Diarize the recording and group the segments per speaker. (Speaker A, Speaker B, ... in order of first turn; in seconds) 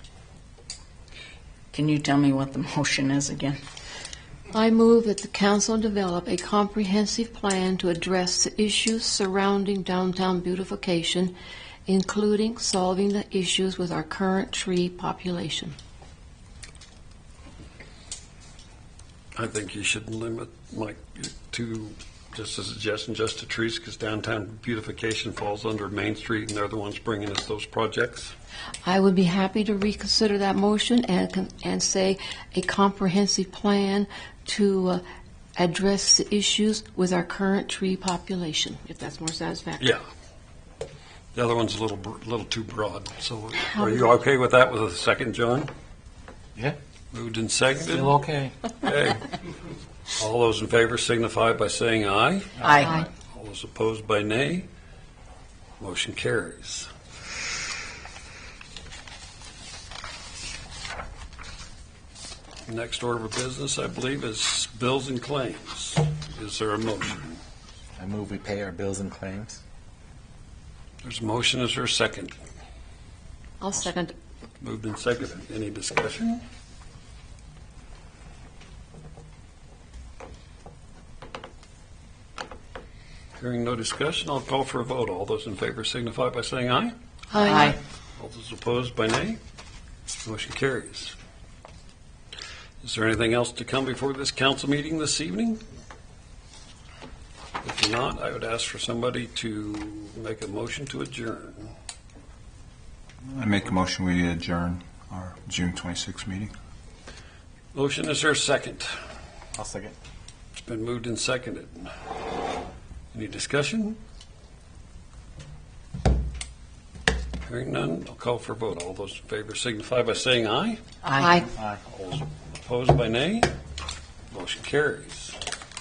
Speaker A: 1.7-3.6, 52.6-53.0, 121.0-121.3
Speaker B: 4.5-11.3, 11.9-15.7, 28.8-35.0, 35.6-39.9, 43.7-44.1, 73.6-74.1, 87.3-87.8, 121.2-121.5
Speaker C: 19.4-28.3, 41.3-45.7, 47.1-48.1, 48.8-49.3, 50.2-54.7, 55.8-56.9, 62.6-67.4, 71.0-72.3, 74.6-76.4, 83.4-86.9, 88.2-89.4, 90.2-91.2, 92.8-95.6, 97.6-101.7, 107.7-108.9, 110.5-111.9, 113.1-114.0, 117.4-120.8, 121.9-123.5, 124.3-125.4
Speaker D: 47.9-48.5, 68.0-69.6, 109.5-109.9, 121.4-121.8
Speaker E: 103.3-106.5